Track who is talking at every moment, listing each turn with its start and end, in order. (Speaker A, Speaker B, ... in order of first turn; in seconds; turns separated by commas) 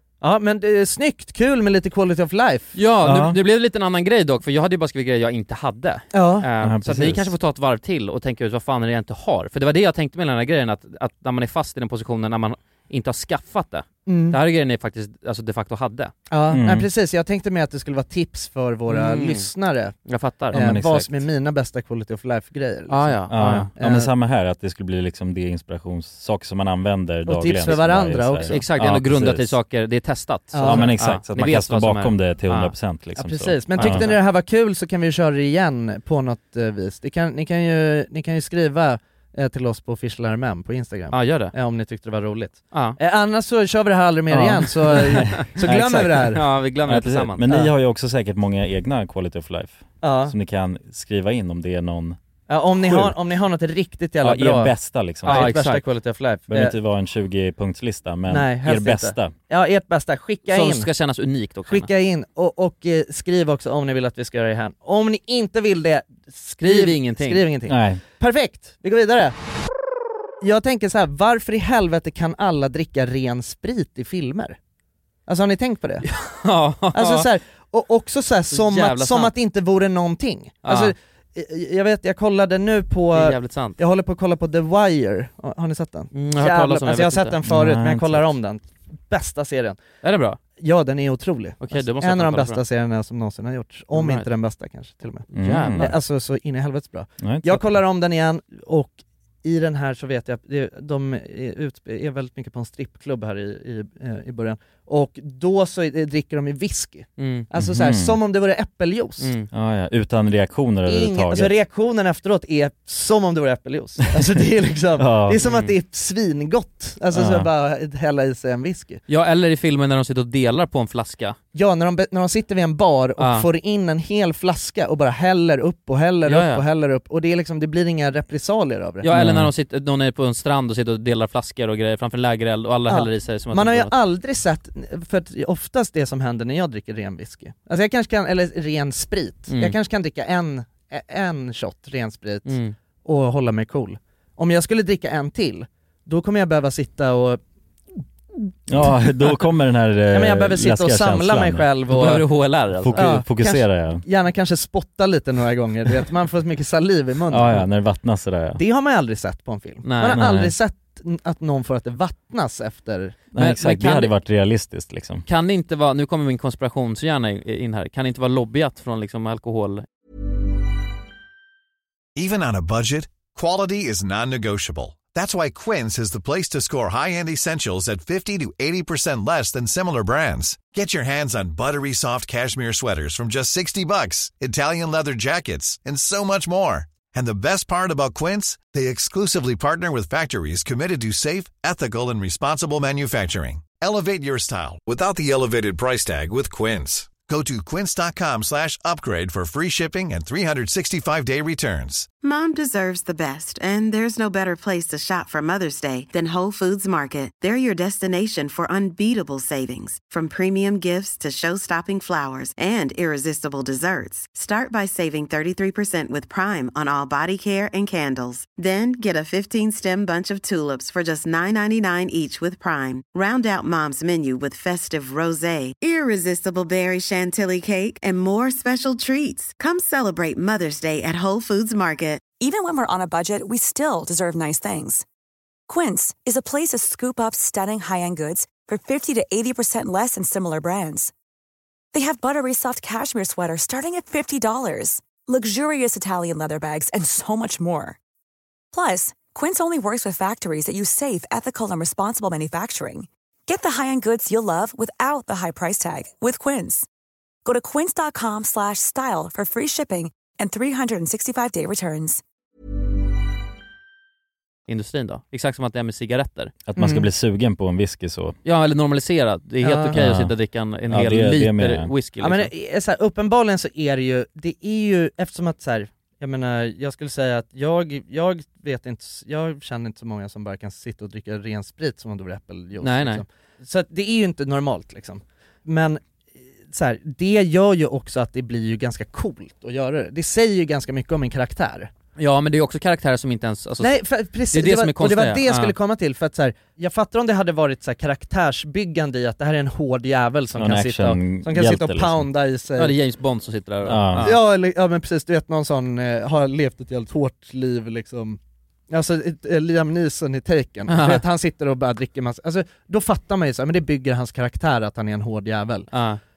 Speaker A: 0.2-2.8, Speaker B: 2.8-16.1, Speaker C: 3.0-3.4, Speaker A: 6.1-6.5, Speaker C: 6.6-7.3, Speaker A: 14.1-14.4, Speaker A: 16.3-19.9, Speaker C: 16.5-16.9, Speaker B: 18.9-19.5, Speaker B: 20.1-20.6, Speaker C: 20.5-21.2, Speaker A: 20.5-24.1, Speaker B: 22.9-23.7, Speaker C: 23.3-29.6, Speaker A: 27.3-28.7, Speaker B: 28.5-32.7, Speaker A: 30.5-30.9, Speaker C: 30.6-34.1, Speaker A: 33.2-46.4, Speaker B: 33.8-34.1, Speaker B: 41.1-41.5, Speaker B: 42.7-43.0, Speaker C: 44.3-52.2, Speaker B: 45.4-47.5, Speaker A: 50.0-50.3, Speaker A: 52.5-56.8, Speaker C: 52.8-53.2, Speaker C: 54.2-55.5, Speaker B: 55.2-55.9, Speaker C: 56.5-59.3, Speaker A: 58.3-60.9, Speaker B: 60.5-61.9, Speaker A: 61.7-69.4, Speaker B: 66.6-67.4, Speaker C: 67.7-68.0, Speaker A: 70.4-74.6, Speaker A: 75.3-76.1, Speaker B: 76.0-77.3, Speaker A: 76.9-89.8, Speaker B: 78.5-79.3, Speaker B: 80.7-80.9, Speaker B: 83.1-83.8, Speaker B: 86.1-87.4, Speaker C: 87.5-88.3, Speaker B: 90.0-90.4, Speaker A: 90.6-109.3, Speaker B: 91.6-92.6, Speaker B: 93.9-94.3, Speaker C: 95.3-96.0, Speaker B: 95.3-95.9, Speaker C: 97.2-97.8, Speaker B: 107.2-107.5, Speaker C: 107.5-108.2, Speaker B: 109.2-109.5, Speaker C: 109.5-111.5, Speaker A: 110.9-119.0, Speaker C: 115.0-115.4, Speaker B: 115.4-115.7, Speaker C: 117.1-117.5, Speaker B: 119.1-121.4, Speaker A: 121.5-129.1, Speaker B: 123.2-123.5, Speaker B: 126.3-126.6, Speaker B: 129.0-133.9, Speaker C: 129.1-129.5, Speaker A: 132.9-147.4, Speaker B: 139.5-139.8, Speaker B: 142.5-142.8, Speaker A: 148.5-149.0, Speaker C: 148.7-151.7, Speaker A: 150.1-152.2, Speaker B: 151.9-153.1, Speaker C: 152.8-154.0, Speaker A: 152.9-157.7, Speaker C: 157.3-158.6, Speaker A: 158.6-163.2, Speaker B: 159.8-160.2, Speaker C: 160.1-160.5, Speaker C: 163.3-165.2, Speaker B: 163.4-164.1, Speaker B: 165.3-169.9, Speaker D: 172.2-202.1, Speaker E: 202.2-232.2, Speaker F: 232.4-235.1, Speaker F: 235.7-241.1, Speaker F: 241.9-248.0, Speaker F: 248.7-256.9, Speaker F: 257.4-262.2, Speaker B: 264.7-266.5, Speaker C: 266.7-268.4, Speaker A: 266.8-267.1, Speaker B: 268.4-272.5, Speaker A: 269.6-270.0, Speaker C: 269.9-270.4, Speaker C: 270.9-271.9, Speaker A: 272.2-286.0, Speaker B: 282.8-283.2, Speaker A: 286.7-291.9, Speaker B: 292.2-295.7, Speaker A: 293.8-302.9, Speaker C: 300.6-302.3, Speaker B: 302.8-304.4, Speaker C: 303.8-304.3, Speaker A: 304.2-308.4, Speaker A: 308.9-315.9, Speaker B: 310.9-311.2, Speaker B: 315.9-316.2